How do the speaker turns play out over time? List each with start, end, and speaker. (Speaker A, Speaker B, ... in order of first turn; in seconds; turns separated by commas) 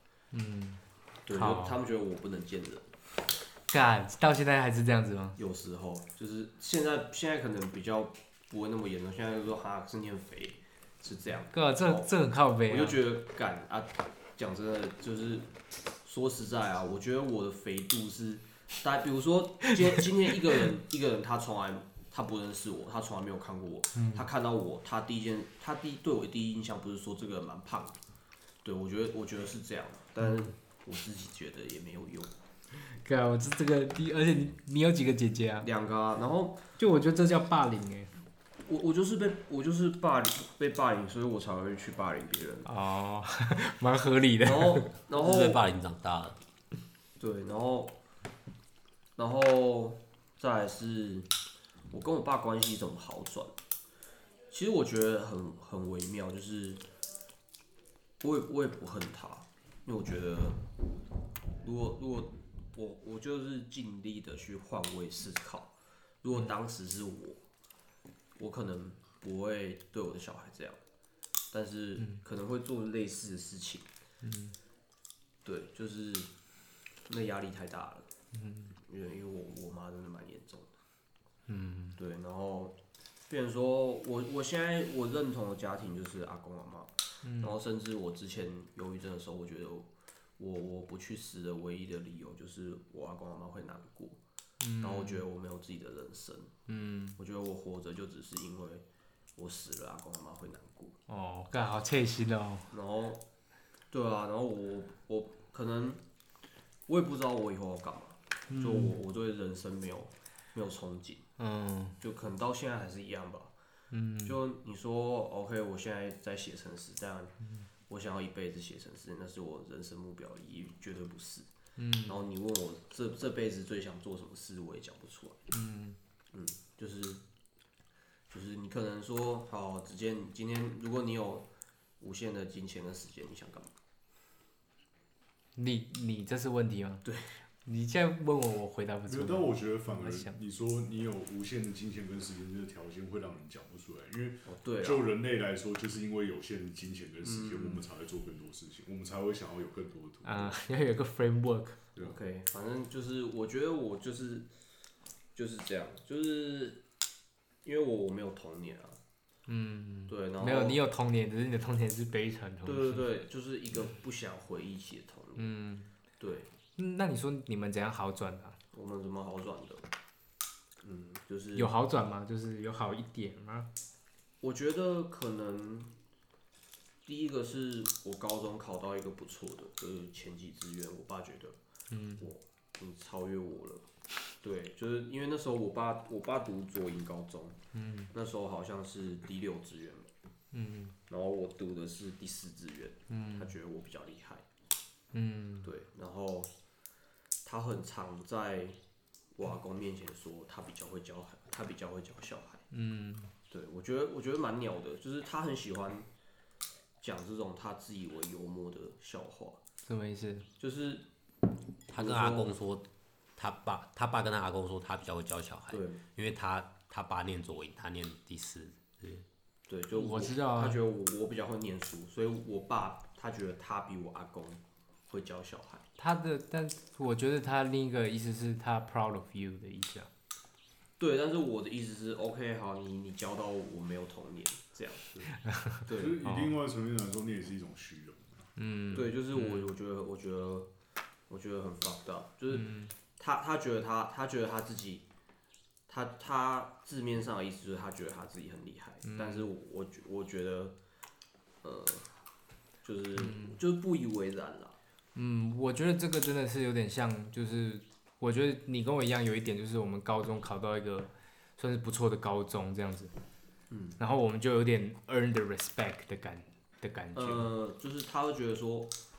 Speaker A: 0.3-1.8, Speaker B: 1.2-2.9, Speaker A: 3.7-5.4, Speaker B: 5.4-12.1, Speaker A: 11.5-13.0, Speaker B: 12.7-15.5, Speaker B: 16.0-28.0, Speaker A: 23.9-24.2, Speaker B: 28.6-32.3, Speaker A: 30.2-30.5, Speaker A: 32.7-35.7, Speaker B: 35.6-36.6, Speaker A: 36.8-38.1, Speaker B: 38.6-42.7, Speaker A: 42.6-44.9, Speaker B: 44.4-45.6, Speaker C: 45.1-46.4, Speaker B: 47.2-47.9, Speaker B: 49.2-51.3, Speaker B: 51.9-53.5, Speaker B: 54.5-56.8, Speaker B: 58.2-60.6, Speaker B: 61.6-65.7, Speaker B: 66.2-67.4, Speaker B: 68.4-70.8, Speaker B: 71.5-73.9, Speaker A: 74.2-74.6, Speaker B: 75.4-76.3, Speaker B: 77.1-78.1, Speaker A: 78.3-78.7, Speaker B: 78.8-80.8, Speaker A: 81.5-82.0, Speaker B: 82.0-82.8, Speaker B: 83.3-94.2, Speaker A: 87.2-87.6, Speaker A: 94.6-95.2, Speaker B: 94.8-96.5, Speaker A: 96.7-97.2, Speaker B: 97.2-98.8, Speaker B: 99.3-101.0, Speaker A: 101.1-102.7, Speaker B: 102.7-103.2, Speaker B: 103.9-106.0, Speaker B: 106.9-111.2, Speaker A: 108.5-109.0, Speaker A: 111.4-112.0, Speaker B: 112.0-113.5, Speaker A: 113.9-114.4, Speaker B: 114.2-117.3, Speaker B: 117.9-121.5, Speaker A: 121.8-122.2, Speaker B: 122.1-125.4, Speaker A: 125.5-126.0, Speaker B: 126.3-127.2, Speaker B: 128.3-131.5, Speaker B: 132.0-133.7, Speaker A: 135.6-137.0, Speaker B: 137.0-137.4, Speaker A: 137.6-140.4, Speaker D: 139.1-150.6, Speaker B: 144.4-145.1, Speaker B: 147.2-147.8, Speaker A: 150.2-151.8, Speaker B: 152.0-154.5, Speaker B: 155.3-156.8, Speaker B: 157.6-159.0, Speaker A: 159.5-163.1, Speaker B: 160.1-160.8, Speaker B: 162.6-165.5, Speaker A: 165.4-165.9, Speaker B: 166.2-166.5, Speaker A: 166.8-168.6, Speaker B: 168.7-169.8, Speaker B: 170.8-171.7, Speaker A: 171.5-173.7, Speaker B: 174.4-175.9, Speaker B: 177.0-181.6, Speaker A: 181.9-182.2, Speaker B: 182.2-183.8, Speaker B: 184.4-187.6, Speaker A: 187.7-188.1, Speaker B: 188.1-190.1, Speaker A: 190.5-190.9, Speaker B: 191.1-194.4, Speaker A: 193.1-193.6, Speaker A: 195.1-195.7, Speaker B: 195.6-196.5, Speaker B: 197.4-198.8, Speaker B: 199.3-202.6, Speaker A: 202.7-203.3, Speaker B: 203.5-206.1, Speaker B: 207.0-209.6, Speaker A: 209.8-210.5, Speaker B: 210.6-211.1, Speaker C: 211.9-212.8, Speaker B: 211.9-212.5, Speaker C: 213.4-219.2, Speaker B: 215.7-216.0, Speaker B: 219.7-225.8, Speaker A: 219.9-220.8, Speaker A: 226.0-230.1, Speaker B: 231.0-235.2, Speaker A: 235.4-236.6, Speaker B: 235.9-236.2, Speaker D: 235.9-238.5, Speaker A: 238.6-239.7, Speaker B: 238.9-240.7, Speaker B: 241.3-245.1, Speaker A: 242.5-242.9, Speaker B: 245.9-250.7, Speaker A: 249.0-249.5, Speaker B: 251.6-252.1, Speaker B: 252.8-254.8, Speaker A: 253.2-253.6, Speaker A: 255.2-263.1, Speaker B: 263.7-264.0, Speaker A: 264.0-267.5, Speaker B: 267.1-268.9